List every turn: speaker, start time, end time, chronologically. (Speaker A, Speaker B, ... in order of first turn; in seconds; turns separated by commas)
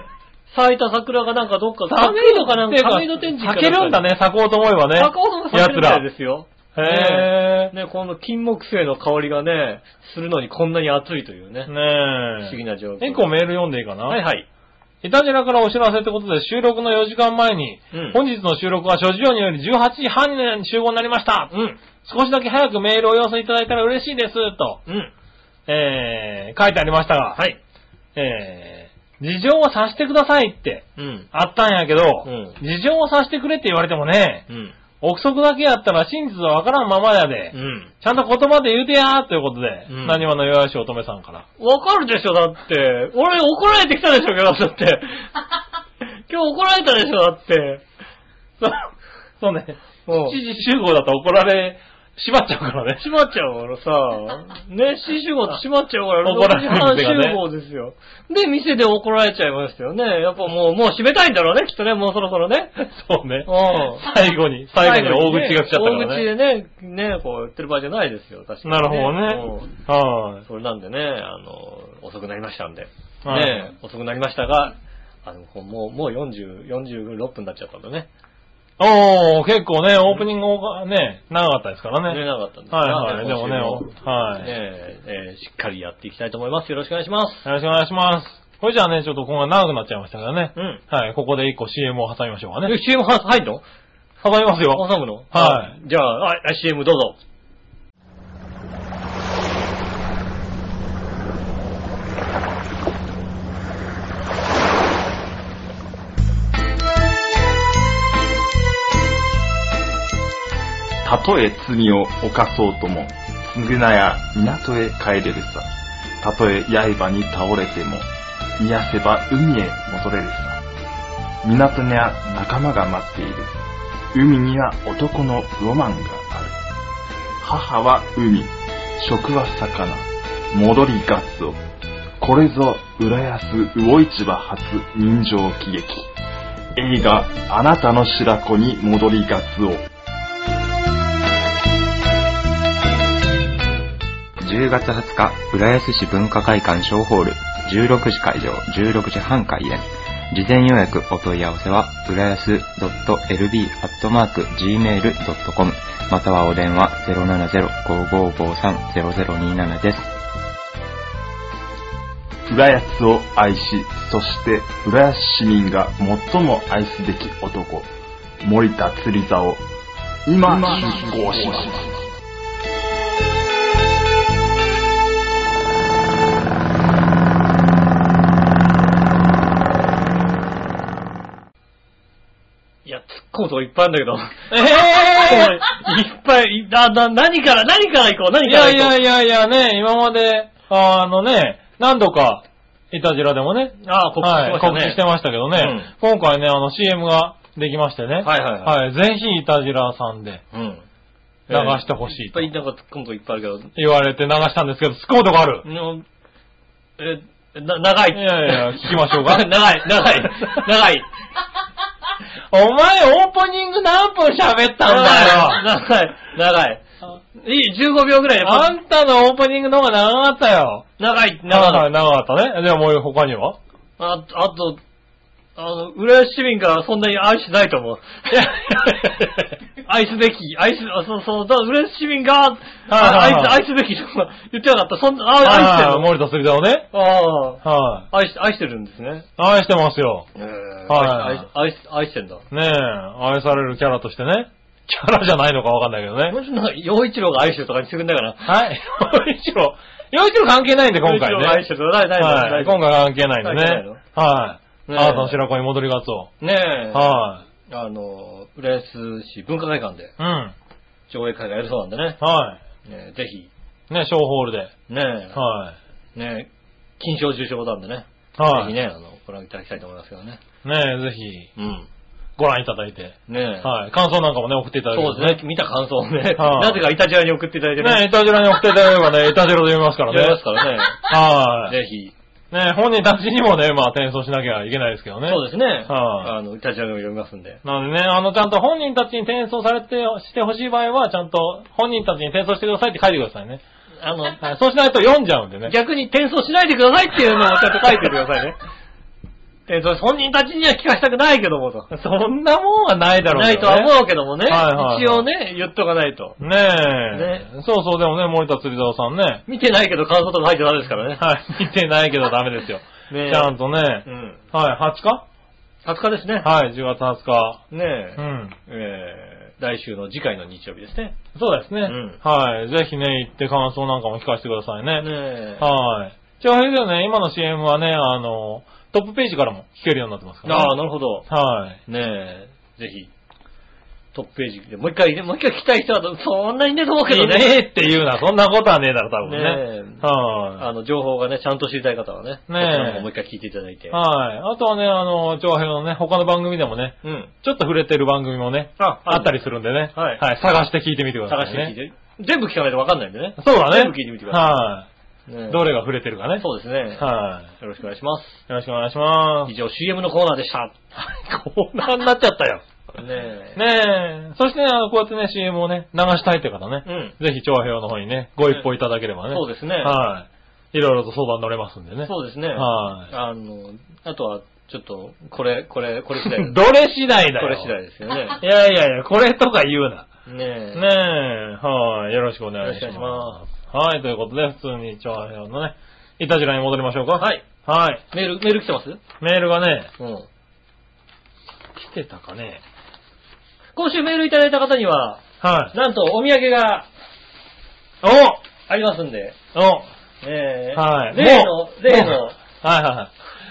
Speaker A: 0.5-4.1, Speaker B: 1.9-6.0, Speaker A: 4.9-11.7, Speaker B: 6.7-7.7, Speaker B: 11.7-14.2, Speaker A: 12.4-13.3, Speaker A: 14.1-14.5, Speaker B: 15.0-21.5, Speaker A: 17.9-18.2, Speaker A: 21.5-21.8, Speaker B: 22.0-24.8, Speaker A: 24.9-25.1, Speaker B: 25.7-27.4, Speaker B: 28.1-34.4, Speaker A: 30.9-31.3, Speaker A: 32.2-32.6, Speaker A: 34.5-34.8, Speaker B: 35.0-41.4, Speaker A: 37.5-37.9, Speaker A: 39.9-40.2, Speaker A: 41.6-45.2, Speaker A: 46.3-47.8, Speaker B: 48.6-48.9, Speaker B: 49.4-53.0, Speaker A: 50.0-50.4, Speaker A: 53.0-62.7, Speaker B: 56.2-57.4, Speaker B: 62.8-66.3, Speaker A: 63.5-64.0, Speaker A: 64.7-69.7, Speaker B: 68.6-70.4, Speaker A: 70.4-78.1, Speaker B: 73.2-73.7, Speaker B: 78.8-84.5, Speaker A: 82.1-87.4, Speaker B: 87.4-92.7, Speaker A: 90.5-90.8, Speaker A: 92.6-93.6, Speaker B: 94.2-95.7, Speaker A: 94.7-97.2, Speaker C: 111.0-115.7, Speaker C: 116.2-120.6, Speaker C: 121.4-123.6, Speaker C: 124.1-126.5, Speaker C: 127.4-131.6, Speaker C: 132.2-136.1, Speaker C: 136.8-139.8, Speaker D: 144.4-160.1, Speaker C: 162.5-167.9, Speaker C: 168.4-169.6, Speaker C: 170.2-172.0, Speaker A: 182.8-189.0, Speaker B: 184.5-185.6, Speaker B: 188.4-200.4, Speaker A: 193.8-195.0, Speaker A: 195.5-195.9, Speaker A: 198.2-198.8, Speaker A: 200.5-200.8, Speaker A: 201.5-203.7, Speaker B: 201.5-202.5, Speaker B: 203.7-205.7, Speaker A: 205.6-206.0, Speaker A: 207.0-211.1, Speaker B: 208.1-209.5, Speaker B: 212.5-215.7, Speaker A: 214.8-216.8, Speaker A: 217.3-218.7, Speaker B: 218.4-220.9, Speaker A: 221.0-221.9, Speaker B: 221.5-223.6, Speaker A: 224.0-224.8, Speaker A: 225.6-228.4, Speaker B: 228.3-229.5, Speaker A: 229.8-236.1, Speaker B: 232.9-233.6, Speaker B: 235.4-236.9, Speaker A: 236.9-239.2, Speaker B: 237.6-238.1, Speaker B: 239.4-240.3, Speaker A: 240.3-242.4, Speaker B: 240.9-241.4, Speaker B: 242.5-246.4, Speaker A: 246.3-248.5, Speaker B: 248.4-256.3, Speaker A: 251.0-254.0, Speaker A: 254.8-255.4, Speaker A: 256.4-260.1, Speaker B: 256.9-257.4, Speaker B: 260.2-260.5, Speaker A: 261.1-262.2, Speaker B: 262.2-262.6, Speaker A: 262.8-263.5, Speaker B: 263.9-264.7, Speaker A: 264.9-265.4, Speaker B: 265.3-265.8, Speaker A: 266.1-270.4, Speaker B: 268.4-268.7, Speaker B: 270.6-271.5, Speaker A: 271.6-271.9, Speaker B: 272.4-275.4, Speaker A: 273.3-273.7, Speaker A: 274.9-278.1, Speaker B: 276.4-276.8, Speaker B: 277.8-280.4, Speaker A: 280.1-282.1, Speaker B: 281.0-281.8, Speaker B: 282.5-286.3, Speaker A: 285.2-287.6, Speaker B: 287.6-293.6, Speaker A: 294.0-294.4, Speaker B: 294.4-295.7, Speaker A: 295.6-298.6, Speaker A: 299.7-301.9, Speaker B: 301.9-305.2, Speaker A: 303.3-306.4, Speaker B: 306.4-309.4, Speaker A: 307.1-307.5, Speaker A: 309.5-311.2, Speaker B: 311.1-315.2, Speaker A: 313.1-314.4, Speaker A: 315.8-316.5, Speaker B: 316.4-317.6, Speaker A: 317.7-321.2, Speaker B: 318.2-318.5, Speaker B: 321.3-331.8, Speaker A: 321.8-322.2, Speaker A: 325.0-325.6, Speaker A: 330.4-331.3, Speaker A: 331.9-333.1, Speaker A: 334.1-337.6, Speaker B: 337.1-340.6, Speaker A: 339.2-340.0, Speaker A: 340.6-344.0, Speaker B: 342.5-343.1, Speaker B: 343.9-351.7, Speaker A: 347.0-347.3, Speaker A: 348.8-349.4, Speaker A: 349.9-350.2, Speaker A: 351.3-354.6, Speaker B: 353.4-354.9, Speaker A: 355.3-355.6, Speaker B: 355.5-356.4, Speaker A: 356.4-358.4, Speaker B: 357.0-357.5, Speaker B: 358.5-359.5, Speaker A: 359.4-360.8, Speaker B: 360.9-362.6, Speaker A: 362.9-363.6, Speaker B: 363.5-373.1, Speaker A: 366.8-367.1, Speaker A: 369.3-370.0, Speaker A: 372.0-376.6, Speaker B: 376.2-377.7, Speaker A: 377.4-378.4, Speaker B: 378.4-380.1, Speaker A: 380.2-381.0, Speaker B: 380.7-388.0, Speaker A: 382.6-383.4, Speaker A: 387.2-387.4, Speaker A: 388.1-389.0, Speaker B: 389.2-389.9, Speaker A: 390.0-390.3, Speaker B: 391.7-392.6, Speaker A: 393.8-396.9, Speaker B: 395.4-395.7, Speaker B: 398.0-398.4, Speaker A: 398.7-399.4, Speaker B: 399.5-399.9, Speaker A: 400.2-402.4, Speaker B: 400.7-403.1